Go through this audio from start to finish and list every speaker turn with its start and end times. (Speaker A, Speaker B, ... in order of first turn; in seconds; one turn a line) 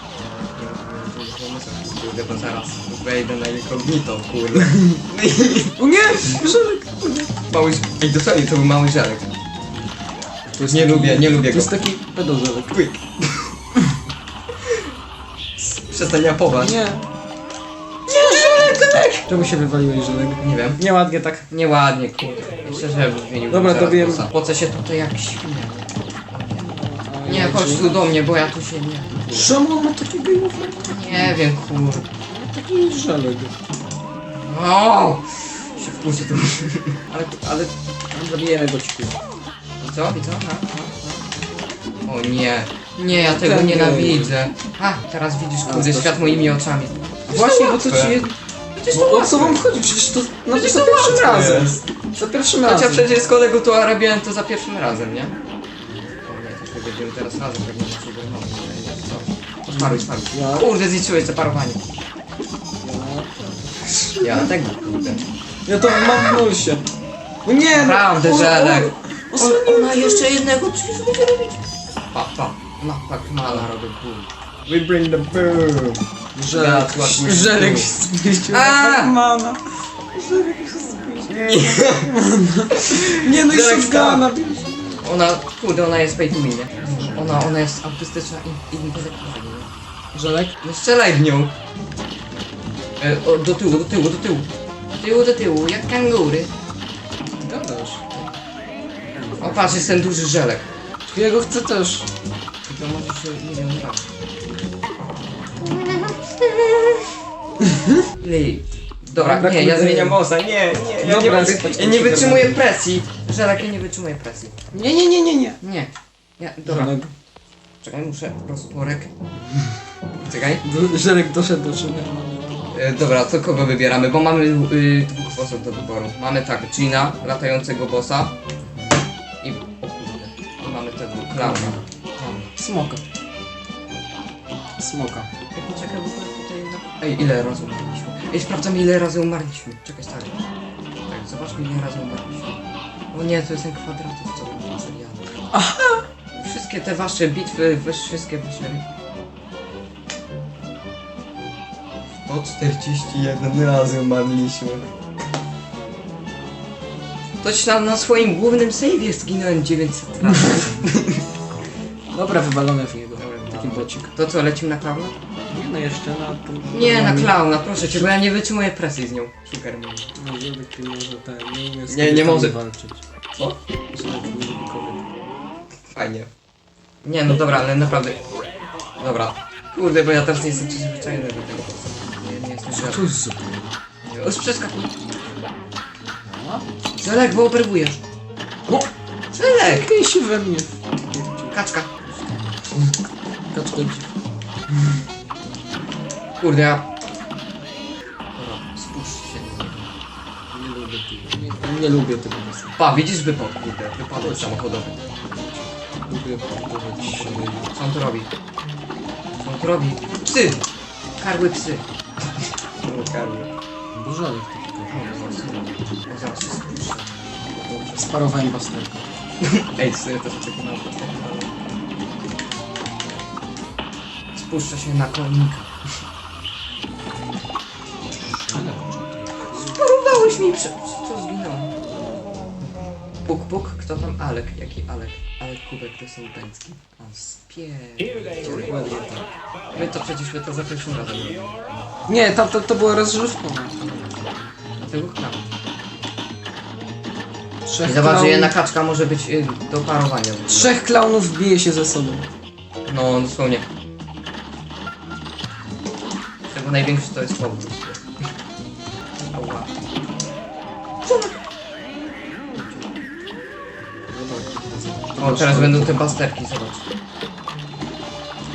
Speaker A: 0.2-6.4
Speaker B: 4.7-5.0
Speaker B: 5.8-7.3
Speaker A: 7.5-9.3
Speaker B: 10.5-12.8
Speaker A: 10.7-11.7
Speaker A: 12.7-13.5
Speaker A: 15.6-16.8
Speaker B: 16.6-17.0
Speaker A: 18.1-19.2
Speaker B: 18.3-18.7
Speaker B: 19.2-21.4
Speaker A: 20.4-20.8
Speaker A: 21.5-26.7
Speaker B: 23.5-24.3
Speaker B: 26.6-28.1
Speaker A: 27.2-29.5
Speaker B: 29.2-31.3
Speaker A: 30.8-32.1
Speaker B: 32.3-33.5
Speaker A: 34.3-37.7
Speaker B: 38.1-39.2
Speaker A: 39.8-41.5
Speaker A: 42.0-49.6
Speaker B: 43.1-44.4
Speaker B: 45.6-46.6
Speaker B: 47.3-48.3
Speaker B: 48.9-53.1
Speaker A: 50.5-51.8
Speaker A: 52.6-55.4
Speaker A: 56.2-61.8
Speaker B: 59.7-60.7
Speaker B: 62.8-64.5
Speaker A: 64.2-65.2
Speaker B: 65.7-66.8
Speaker B: 67.4-70.3
Speaker A: 67.7-77.9
Speaker B: 76.3-85.1
Speaker A: 78.5-79.2
Speaker A: 81.3-82.1
Speaker A: 82.7-84.3
Speaker A: 85.0-89.7
Speaker B: 86.8-87.5
Speaker B: 90.1-90.5
Speaker A: 90.6-91.5
Speaker A: 93.0-96.5
Speaker B: 97.3-98.0
Speaker A: 98.1-98.4
Speaker B: 99.1-99.8
Speaker A: 99.4-100.7
Speaker B: 101.0-102.1
Speaker A: 102.7-104.0
Speaker A: 105.6-107.0
Speaker B: 107.7-108.0
Speaker A: 108.2-114.5
Speaker B: 109.1-110.2
Speaker B: 111.0-112.6
Speaker B: 114.7-115.6
Speaker A: 115.6-117.0
Speaker B: 116.6-117.1
Speaker A: 117.8-119.1
Speaker A: 120.3-120.6
Speaker B: 120.6-122.6
Speaker A: 122.7-128.3
Speaker B: 128.7-129.0
Speaker A: 129.4-132.5
Speaker B: 131.4-131.8
Speaker B: 132.6-133.0
Speaker B: 134.8-135.3
Speaker A: 135.5-140.3
Speaker A: 141.1-145.5
Speaker B: 145.5-146.0
Speaker A: 146.3-148.8
Speaker A: 152.2-154.9
Speaker A: 157.4-161.2
Speaker B: 160.3-160.6
Speaker B: 162.1-164.1
Speaker A: 163.2-165.2
Speaker B: 165.5-168.1
Speaker A: 166.7-170.1
Speaker B: 170.1-173.0
Speaker A: 171.9-172.6
Speaker B: 173.9-175.0
Speaker A: 175.9-176.3
Speaker A: 177.0-178.2
Speaker A: 179.0-183.0
Speaker B: 182.7-183.7
Speaker A: 184.1-184.9
Speaker B: 186.3-187.4
Speaker A: 187.0-188.0
Speaker A: 189.3-189.9
Speaker B: 189.4-191.5
Speaker A: 191.5-191.9
Speaker B: 192.1-193.0
Speaker B: 193.5-194.1
Speaker A: 196.4-196.9
Speaker A: 198.3-199.9
Speaker B: 200.5-202.8
Speaker A: 202.8-205.0
Speaker B: 204.2-204.6
Speaker B: 205.3-207.7
Speaker A: 207.1-208.3
Speaker A: 209.4-210.6
Speaker A: 211.2-211.8
Speaker A: 212.8-213.5
Speaker B: 213.9-215.0
Speaker A: 214.9-218.0
Speaker B: 217.8-219.1
Speaker A: 219.4-221.7
Speaker A: 224.3-225.7
Speaker B: 228.1-229.8
Speaker A: 229.5-231.7
Speaker B: 231.9-232.2
Speaker A: 233.2-238.9
Speaker B: 238.4-239.3
Speaker A: 239.7-241.5
Speaker B: 242.1-243.7
Speaker A: 243.8-245.4
Speaker B: 247.7-248.5
Speaker A: 247.8-250.8
Speaker B: 250.5-252.3
Speaker A: 252.8-253.6
Speaker A: 256.5-258.0
Speaker A: 259.3-259.8
Speaker A: 262.5-262.9
Speaker B: 264.1-266.1
Speaker A: 265.2-266.8